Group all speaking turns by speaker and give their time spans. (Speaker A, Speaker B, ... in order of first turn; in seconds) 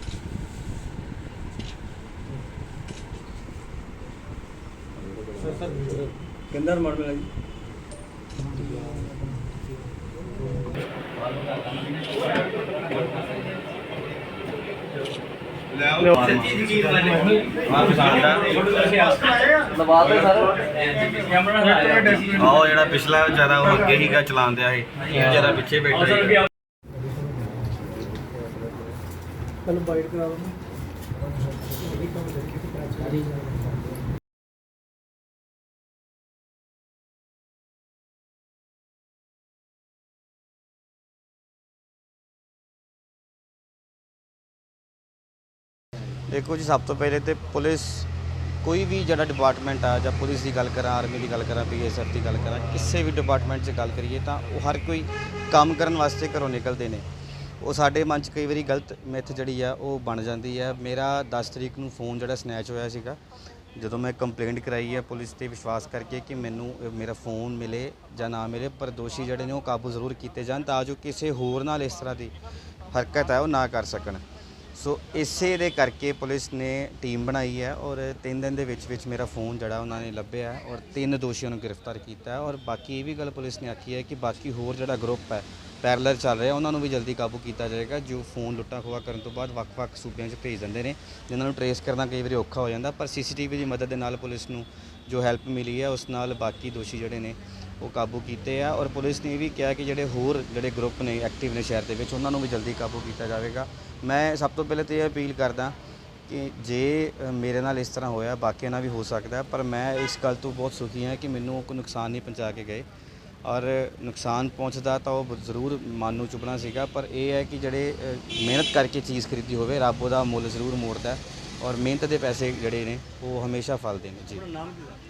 Speaker A: 5.4-5.9, 16.5-17.4, 21.4-22.2, 29.7-30.5
Speaker B: 6.5-7.3, 18.6-22.4, 30.0-30.4, 124.4-125.0
Speaker C: 15.7-17.0, 17.6-18.6, 22.2-26.4, 46.2-48.1, 48.6-57.0, 57.6-63.2, 63.8-72.3, 72.9-74.2, 74.7-105.8, 106.3-112.8, 113.4-124.5